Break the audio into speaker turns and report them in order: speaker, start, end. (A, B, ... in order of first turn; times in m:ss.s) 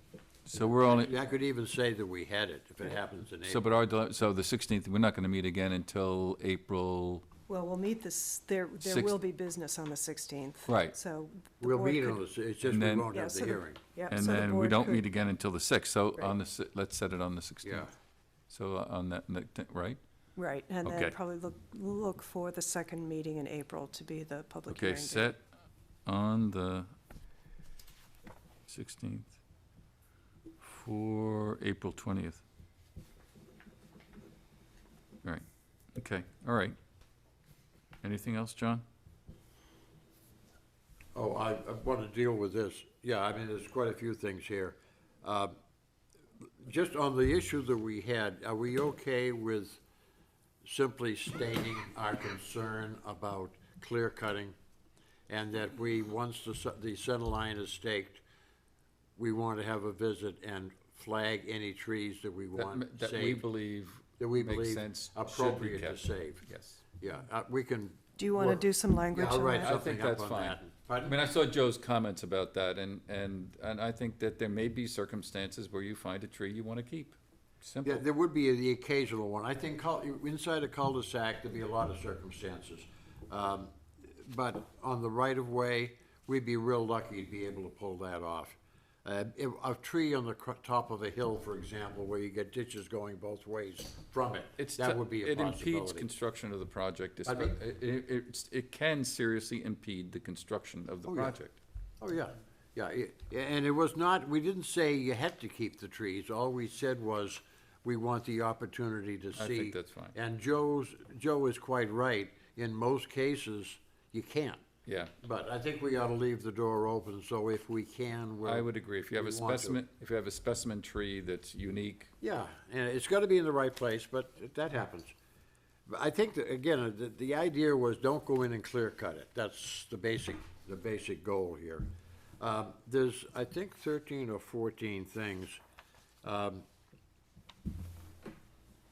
0:00.5-0:01.1 A
0:00.6-0:03.6 B
0:03.5-0:07.2 A
0:07.5-0:12.2 C
0:08.8-0:09.2 A
0:10.7-0:11.0 A
0:11.6-0:13.8 B
0:12.7-0:13.1 A
0:13.1-0:15.0 C
0:14.1-0:17.9 A
0:17.6-0:17.9 B
0:18.5-0:20.0 A
0:20.4-0:25.3 C
0:20.8-0:21.2 A
0:24.7-0:25.4 A
0:26.1-0:26.9 A
0:28.7-0:29.4 A
0:30.6-0:32.4 A
0:36.0-0:36.8 A
0:38.0-0:38.8 A
0:41.2-0:45.6 B
0:46.6-0:49.8 B
0:50.6-0:54.6 B
0:55.3-0:58.2 B
0:59.2-1:03.4 B
1:02.6-1:06.8 A
1:04.2-1:06.4 B
1:07.0-1:11.2 B
1:08.2-1:09.8 C
1:09.6-1:18.0 A
1:17.8-1:36.1 B
1:34.6-1:41.6 A
1:37.3-1:37.6 B
1:41.1-1:41.4 B
1:42.0-1:54.6 B
1:49.4-1:50.2 A
1:54.9-1:55.1 A
1:55.2-1:59.8 B
1:58.4-2:02.1 A
2:02.2-2:05.1 B
2:05.9-2:11.9 B
2:12.4-2:15.6 B
2:16.2-2:16.6 B